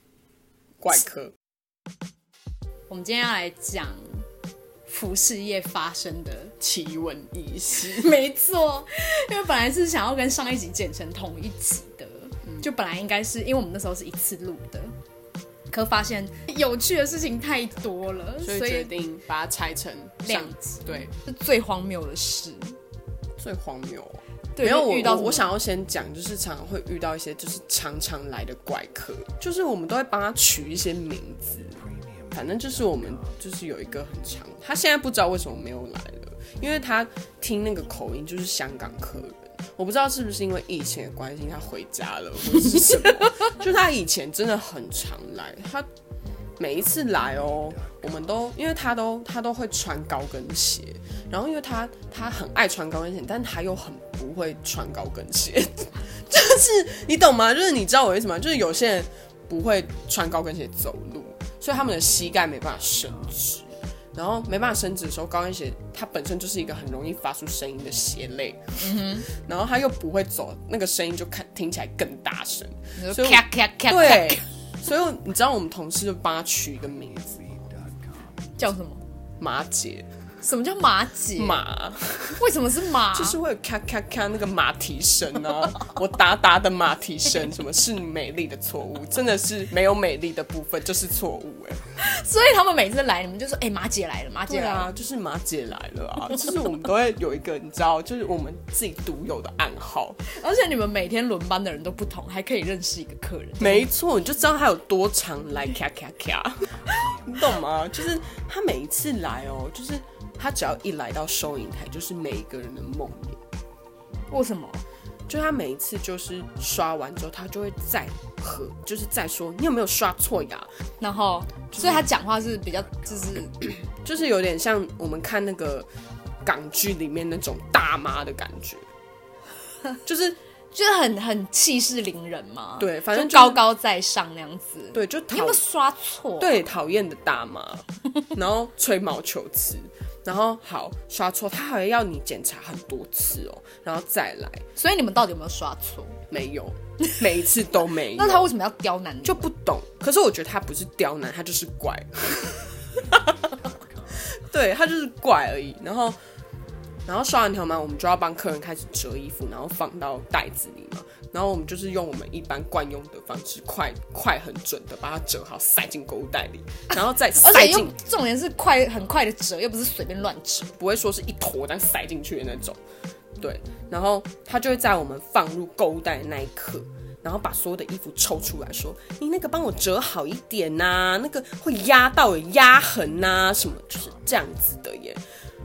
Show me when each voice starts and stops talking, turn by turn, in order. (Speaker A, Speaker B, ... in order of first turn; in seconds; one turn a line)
Speaker A: 0.8-1.3
Speaker B: 2.9-4.2
Speaker B: 4.9-6.5
Speaker A: 6.6-8.1
Speaker B: 8.0-14.9
Speaker B: 15.7-18.9
Speaker A: 18.4-21.1
Speaker B: 20.2-22.8
Speaker A: 23.4-45.9
Speaker B: 24.6-25.5
Speaker A: 46.6-77.8
Speaker B: 68.8-69.3
Speaker B: 73.0-74.4
Speaker B: 78.6-79.0
Speaker A: 79.4-80.1
Speaker B: 80.4-81.6
Speaker A: 81.3-82.4
Speaker B: 82.3-83.4
Speaker A: 83.1-91.8
Speaker B: 92.0-94.9
Speaker A: 94.5-100.2
Speaker B: 100.3-103.9
Speaker A: 103.6-113.4
Speaker B: 114.3-114.8
Speaker A: 115.3-120.7
Speaker B: 121.0-123.5
Speaker A: 121.7-122.0
Speaker A: 124.0-125.9
Speaker A: 126.4-128.8
Speaker A: 130.0-130.4
Speaker B: 130.7-136.6
Speaker A: 132.8-133.6
Speaker A: 134.9-135.6
Speaker A: 136.4-144.7
Speaker B: 144.8-146.2
Speaker A: 146.3-148.5
Speaker B: 148.1-149.5
Speaker A: 149.2-156.2
Speaker A: 157.1-168.0
Speaker B: 167.3-170.8
Speaker A: 170.8-172.8
Speaker A: 173.4-185.2